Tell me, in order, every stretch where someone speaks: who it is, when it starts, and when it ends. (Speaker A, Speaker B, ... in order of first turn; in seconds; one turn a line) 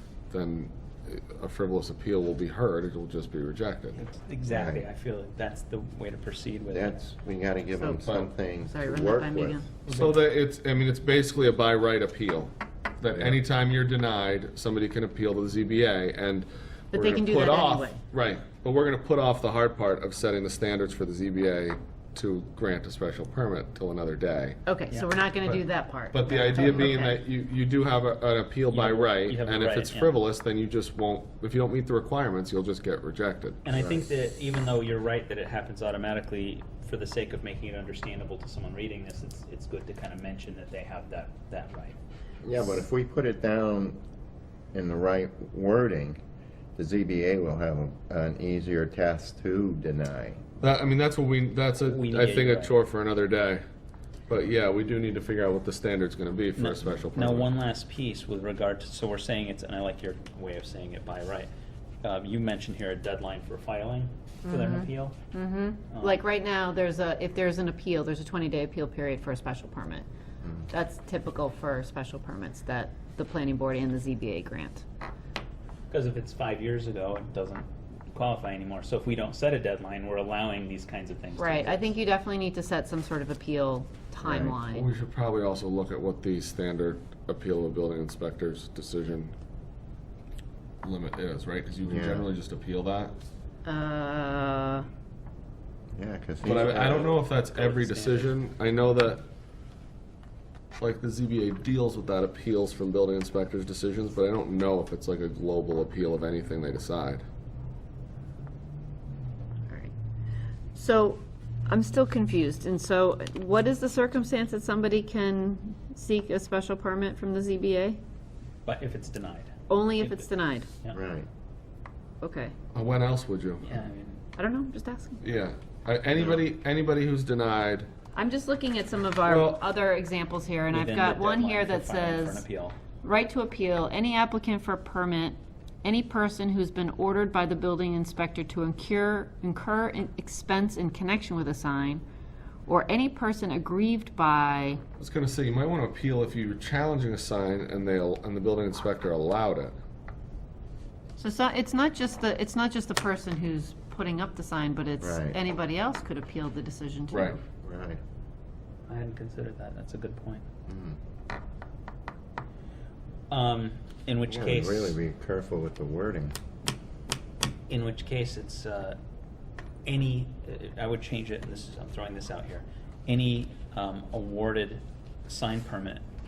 Speaker A: 0.3-4.0
Speaker B: 3.9-7.0
Speaker C: 4.5-4.8
Speaker C: 6.7-9.6
Speaker D: 7.8-9.7
Speaker A: 8.1-8.3
Speaker A: 9.9-24.6
Speaker D: 16.9-18.0
Speaker D: 24.7-27.2
Speaker B: 24.9-25.1
Speaker A: 25.4-33.6
Speaker B: 28.7-30.2
Speaker B: 33.6-42.0
Speaker C: 33.7-34.0
Speaker C: 42.4-44.0
Speaker C: 44.7-46.2
Speaker C: 46.8-50.4
Speaker A: 50.6-53.6
Speaker B: 51.8-52.7
Speaker A: 54.3-57.5
Speaker B: 56.6-61.5
Speaker B: 62.0-65.2
Speaker D: 64.5-70.1
Speaker B: 65.9-66.2
Speaker C: 70.4-70.7
Speaker D: 70.7-74.8
Speaker B: 75.9-82.0
Speaker D: 81.4-84.9
Speaker C: 84.2-84.6
Speaker A: 84.6-89.3
Speaker A: 90.8-93.1
Speaker C: 91.9-92.2
Speaker D: 93.7-94.9
Speaker C: 96.0-97.2
Speaker A: 96.4-99.2
Speaker B: 96.6-98.3
Speaker A: 100.8-107.2
Speaker D: 110.8-118.0
Speaker B: 118.7-120.3
Speaker D: 119.7-120.8
Speaker C: 120.9-121.3
Speaker D: 122.2-122.5
Speaker A: 122.7-123.7
Speaker B: 123.6-124.2
Speaker D: 124.4-125.2
Speaker A: 125.2-127.9
Speaker D: 128.1-132.4
Speaker A: 129.2-129.6
Speaker B: 130.7-132.8
Speaker D: 133.0-142.0
Speaker D: 142.7-144.8
Speaker A: 145.0-149.7
Speaker D: 151.2-157.4
Speaker C: 155.0-155.4
Speaker A: 157.1-157.4
Speaker C: 157.5-158.0
Speaker B: 158.9-160.4
Speaker C: 160.7-161.0
Speaker B: 163.3-165.0
Speaker C: 164.2-166.3
Speaker B: 167.7-169.0
Speaker B: 169.8-176.0